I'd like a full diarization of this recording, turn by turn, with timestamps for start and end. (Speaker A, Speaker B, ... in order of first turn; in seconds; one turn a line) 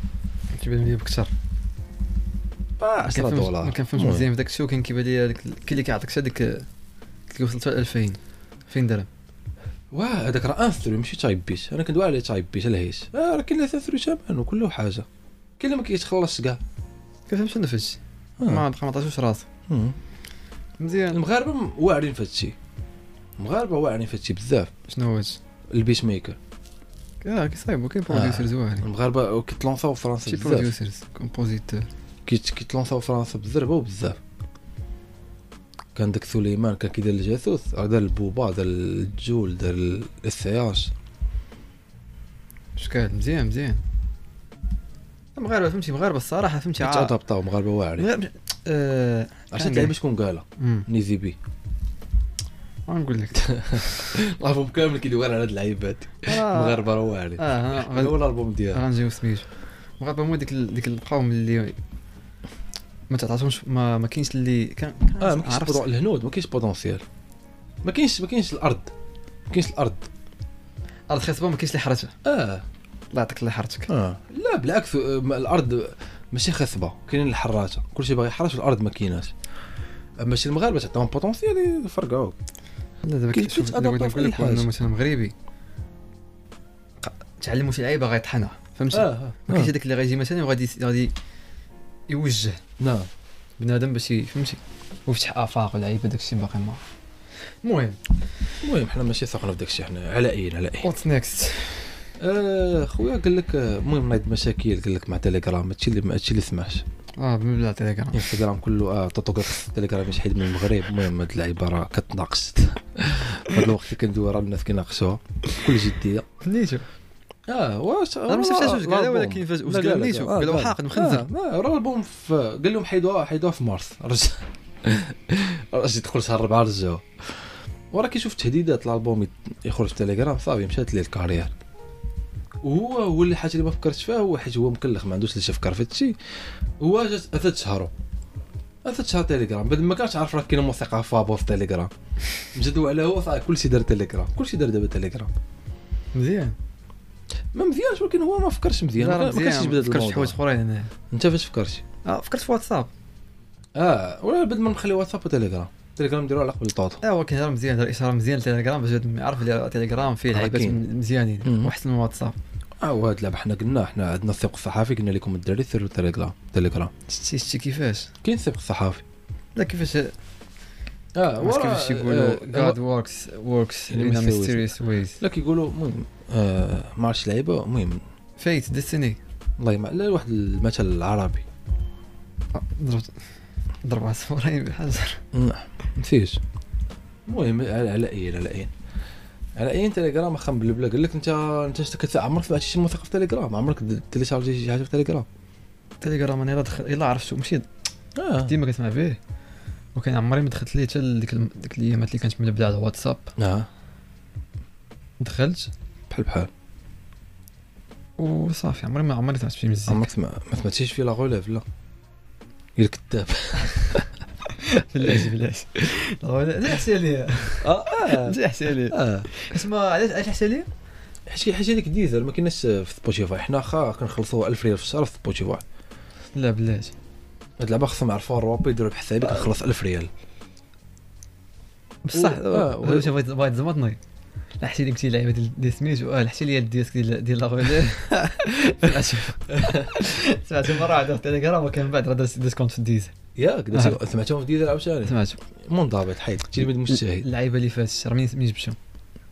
Speaker A: 0.5-1.3
Speaker B: 2.8-4.2
Speaker A: 3.1-6.7
Speaker A: 7.3-9.1
Speaker B: 9.9-15.1
Speaker B: 15.6-16.6
Speaker A: 17.3-19.4
Speaker B: 19.7-19.9
Speaker A: 20.8-21.2
Speaker B: 21.1-22.5
Speaker B: 23.4-24.7
Speaker A: 24.9-25.4
Speaker B: 25.7-26.4
Speaker A: 27.2-28.9
Speaker B: 28.1-30.7
Speaker A: 30.2-31.9
Speaker B: 32.3-34.2
Speaker B: 35.9-40.9
Speaker A: 42.8-43.8
Speaker A: 45.4-47.1
Speaker B: 46.8-48.1
Speaker A: 48.0-50.0
Speaker B: 49.5-51.4
Speaker A: 50.6-50.9
Speaker A: 52.9-53.4
Speaker B: 53.3-58.8
Speaker A: 56.2-58.2
Speaker A: 58.7-59.5
Speaker A: 60.0-61.8
Speaker A: 63.1-65.8
Speaker B: 65.2-67.0
Speaker B: 67.8-68.9
Speaker B: 69.5-70.1
Speaker A: 71.1-72.1
Speaker B: 72.2-72.6
Speaker A: 73.1-73.9
Speaker B: 73.9-79.3
Speaker B: 80.2-82.3
Speaker A: 83.0-85.3
Speaker B: 83.3-84.7
Speaker A: 87.0-91.1
Speaker B: 88.9-89.7
Speaker A: 92.1-92.6
Speaker B: 92.8-93.1
Speaker A: 93.6-96.8
Speaker A: 97.6-98.0
Speaker B: 98.6-100.9
Speaker A: 100.8-102.0
Speaker B: 102.2-106.8
Speaker A: 107.2-108.4
Speaker B: 108.1-116.3
Speaker A: 116.4-116.8
Speaker B: 117.5-131.5
Speaker A: 118.3-121.2
Speaker B: 132.6-136.1
Speaker B: 136.8-137.9
Speaker B: 138.8-141.9
Speaker B: 142.5-145.3
Speaker A: 146.1-146.6
Speaker B: 147.5-150.3
Speaker A: 149.0-150.9
Speaker B: 151.1-151.8
Speaker A: 152.0-152.9
Speaker B: 153.8-157.0
Speaker A: 157.0-162.3
Speaker B: 160.3-160.8
Speaker B: 161.4-161.7
Speaker B: 162.8-166.9
Speaker A: 167.1-168.1
Speaker B: 168.2-169.0
Speaker A: 169.5-170.1
Speaker B: 171.1-172.8
Speaker A: 171.4-175.2
Speaker B: 173.9-178.0
Speaker A: 178.4-179.2
Speaker B: 179.6-181.4
Speaker A: 182.5-183.2
Speaker A: 183.8-185.2
Speaker B: 185.3-186.4
Speaker B: 187.3-188.7
Speaker B: 189.6-195.3
Speaker A: 196.0-197.7
Speaker B: 198.2-198.5
Speaker A: 198.4-199.2
Speaker A: 199.9-203.3
Speaker B: 203.4-203.7
Speaker A: 205.2-205.7
Speaker B: 206.1-206.5
Speaker A: 208.2-210.1
Speaker B: 209.9-211.6
Speaker B: 212.8-214.1
Speaker A: 214.4-220.7
Speaker B: 217.6-219.3
Speaker B: 221.3-225.6
Speaker A: 226.3-226.9
Speaker B: 227.6-230.1
Speaker A: 232.0-234.0
Speaker B: 232.1-233.1
Speaker A: 234.6-243.1
Speaker B: 238.8-240.0
Speaker B: 243.3-247.3
Speaker A: 243.7-244.0
Speaker A: 245.0-245.4
Speaker A: 246.9-248.8